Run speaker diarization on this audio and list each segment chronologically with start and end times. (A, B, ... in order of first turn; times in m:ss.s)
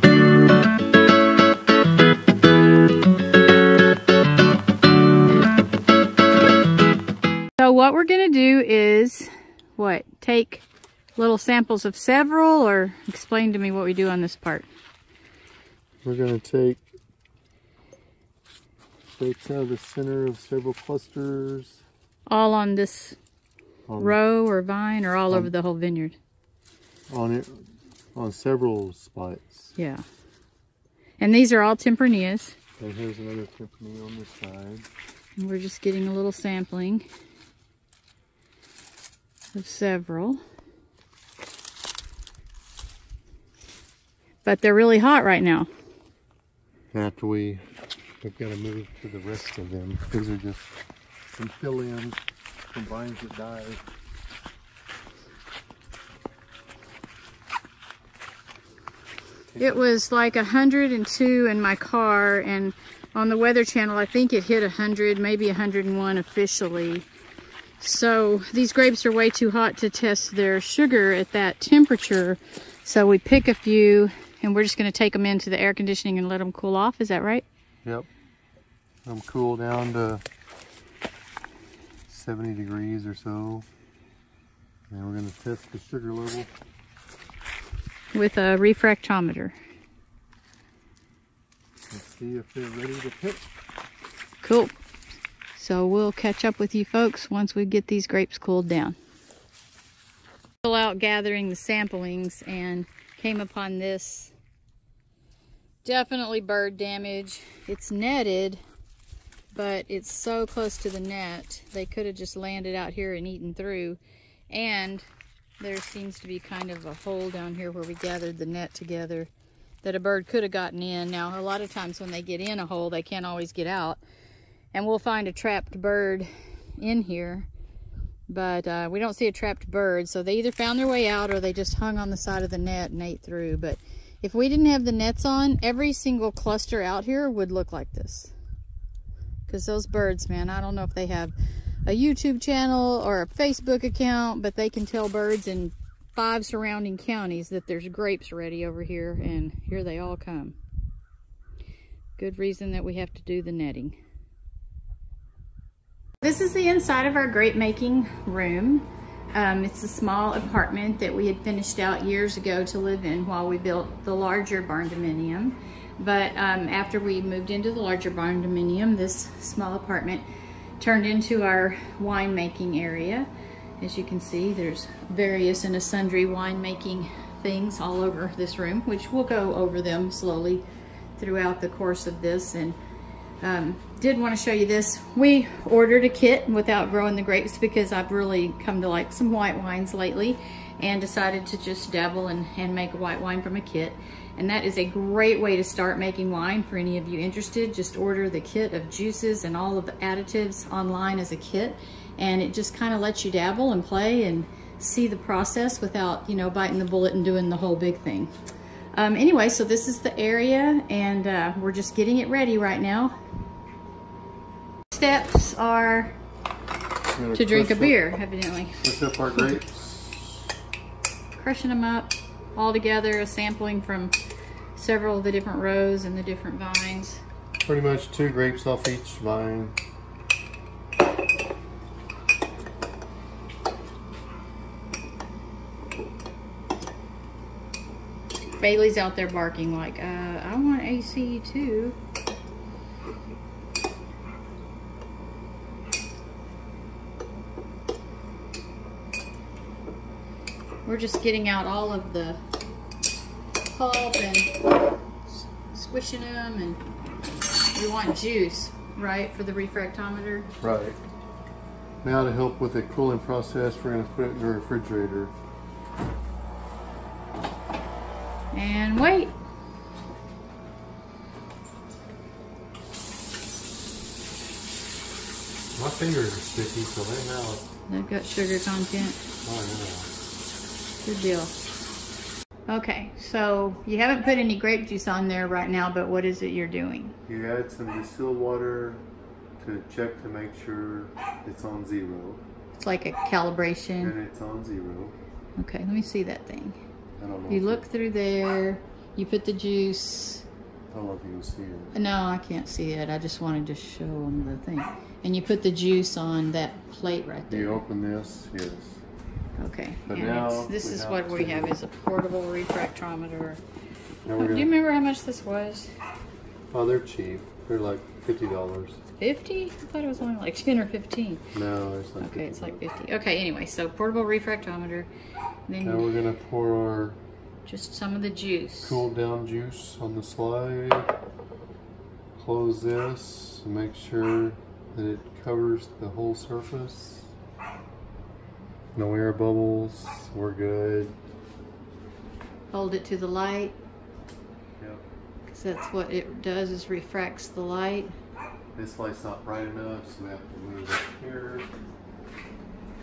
0:07.6-0:10.6 A
0:11.2-0:14.7 A
0:16.0-0:16.9 B
0:19.2-0:21.8 B
0:22.3-0:23.2 A
0:23.9-0:24.2 B
0:24.0-0:26.2 A
0:27.1-0:29.7 B
0:29.8-0:30.0 A
0:31.2-0:32.6 A
0:32.8-0:34.9 B
0:35.4-0:37.0 A
0:39.5-0:40.4 A
0:44.4-0:45.7 A
0:46.9-0:47.6 B
0:48.2-0:50.7 B
0:51.3-0:52.2 B
0:52.7-0:53.8 B
0:59.5-0:59.8 B
0:59.6-1:07.1 A
1:07.8-1:17.4 A
1:19.0-1:20.2 B
1:22.1-1:23.6 B
1:24.9-1:26.5 B
1:28.1-1:29.6 A
1:31.9-1:33.4 B
1:34.4-1:34.7 A
1:35.5-1:39.0 A
1:40.6-1:44.3 A
1:45.8-1:48.6 A
1:49.5-1:55.0 A
1:55.6-1:59.3 A
1:59.8-2:04.0 A
2:04.7-2:07.5 A
2:08.3-2:18.3 A
2:19.5-2:21.3 A
2:21.8-2:30.6 A
2:32.2-2:34.0 A
2:36.2-2:50.2 A
2:50.8-2:53.3 A
2:53.8-3:00.6 A
3:01.2-3:02.8 A
3:03.4-3:28.3 A
3:28.9-3:33.1 A
3:34.9-3:36.2 A
3:37.1-3:38.0 B
3:37.3-3:38.8 A
3:38.8-3:40.5 B
3:41.4-3:44.1 A
3:44.7-3:47.2 A
3:47.6-3:49.8 B
3:58.6-4:02.0 A
4:10.8-4:12.4 A
4:13.7-4:14.6 A
4:15.3-4:16.8 A
4:17.7-4:20.5 A
4:20.6-4:21.0 B
4:22.0-4:25.3 B
4:28.5-4:29.3 A
4:35.7-4:37.7 B
4:37.9-4:39.2 A
4:39.4-4:40.1 B
4:41.0-4:41.5 A
4:42.7-4:47.1 A
4:47.3-4:49.0 B
4:49.6-4:52.4 B
4:52.7-4:54.1 A
4:54.0-4:55.2 B
4:55.6-4:56.8 A
4:57.2-4:57.8 B
4:57.5-5:00.4 A
5:00.9-5:01.9 B
5:01.9-5:07.8 A
5:07.5-5:09.0 B
5:09.6-5:13.6 A
5:10.1-5:11.7 B
5:14.2-5:14.7 B
5:14.4-5:15.9 A
5:16.7-5:19.0 B
5:19.2-5:21.4 A
5:21.5-5:22.8 B
5:22.2-5:25.1 A
5:25.7-5:26.1 A
5:25.8-5:27.2 B
5:27.6-5:29.0 A
5:28.8-5:31.1 B
5:32.3-5:37.3 B
5:38.9-5:41.2 B
5:42.7-5:43.8 A
5:44.8-5:45.0 B
5:45.5-5:48.1 A
5:48.7-5:51.7 B